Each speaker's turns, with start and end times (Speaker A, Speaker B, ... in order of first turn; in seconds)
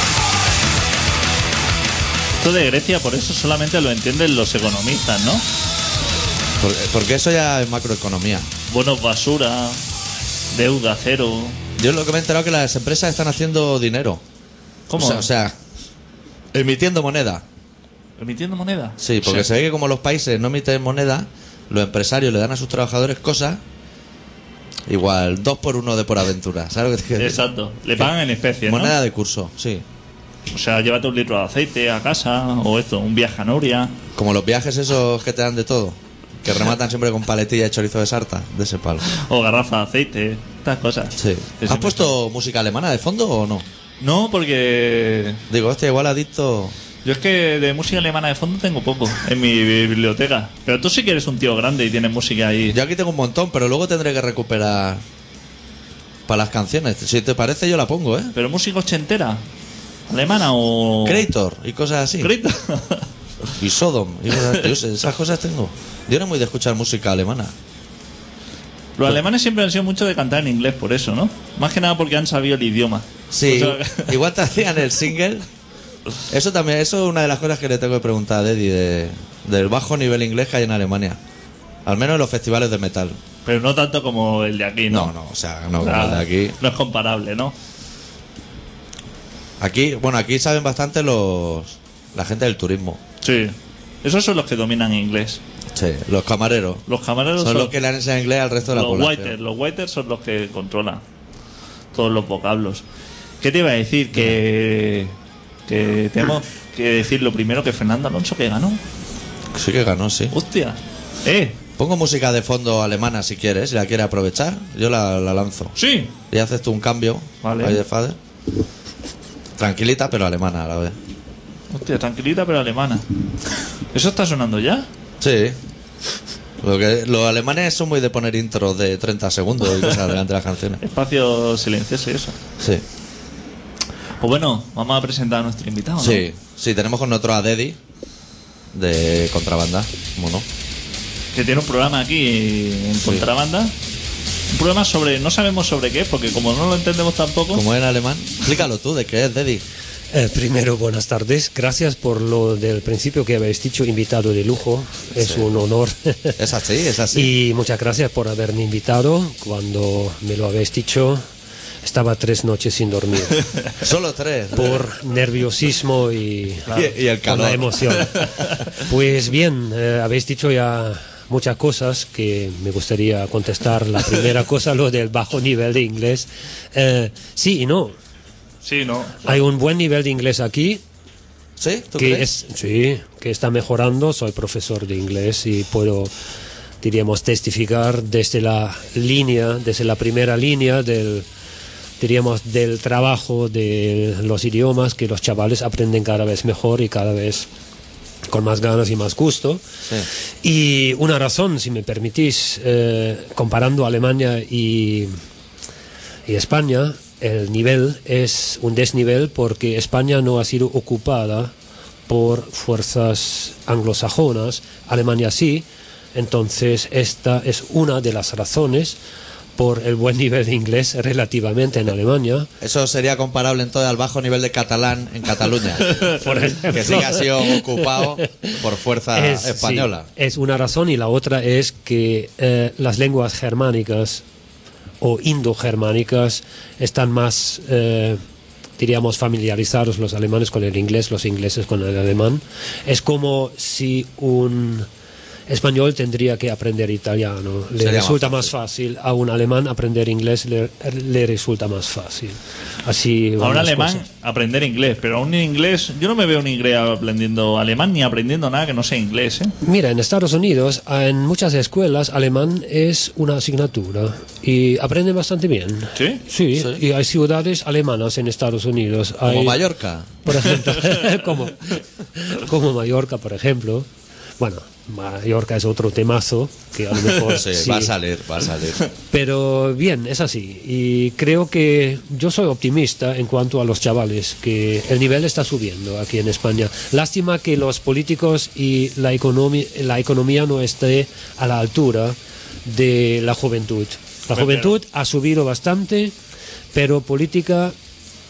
Speaker A: 2.4-5.5, 8.7-9.8, 10.5-11.6, 14.9-15.3, 18.2-19.4, 27.2-28.9, 30.5-34.0, 39.0-42.1, 44.0-45.4, 47.0-52.8, 58.3-59.4, 60.1-61.3, 62.2-63.1, 69.0-74.2, 83.4-85.1, 85.8-87.5, 93.2-95.4, 96.9-97.7, 98.6-101.0, 101.9-102.8, 103.4-105.2, 105.7-108.8, 110.3-111.6, 115.8-116.1, 117.4-117.8, 121.7-123.0, 123.9-124.9, 130.8-132.4, 134.2-136.2, 141.3-143.7, 144.5-147.6, 178.6-179.3, 253.4-259.5, 265.9-266.2, 294.3-294.8
Speaker B: 6.6-8.5, 11.8-14.2, 14.9-15.6, 16.5-17.4, 19.0-23.6, 24.9-27.4, 28.6-29.8, 34.1-39.0, 41.2-43.6, 45.5-46.7, 52.7-55.0, 56.3-58.3, 61.0-62.3, 63.6-67.5, 73.3-75.5, 76.3-81.2, 81.8-83.2, 84.9-86.5, 89.6-93.0, 95.7-96.8, 97.4-99.3, 109.5-110.3, 111.8-115.7, 116.3-118.2, 119.6-121.0, 125.2-125.6, 126.6-130.8, 136.0-137.8, 138.7-140.4, 147.5-149.6, 155.2-155.4, 156.4-157.3, 163.8-164.8, 166.7-168.1, 181.6-182.3, 222.6-226.1, 226.7-230.1, 247.8-248.5, 269.2-270.2, 277.3-278.8
Speaker C: 150.1-156.4, 157.1-161.2, 161.8-163.5, 164.6-177.9, 179.2-180.8, 181.9-186.1, 186.8-191.2, 192.0-197.5, 198.3-199.6, 200.4-205.2, 206.3-211.5, 212.1-219.0, 219.6-222.5, 226.0-228.5, 229.1-234.2, 235.0-238.2, 238.8-244.9, 245.5-254.0, 259.6-269.6, 270.2-273.9, 274.4-277.9, 279.1-296.1, 296.7-297.7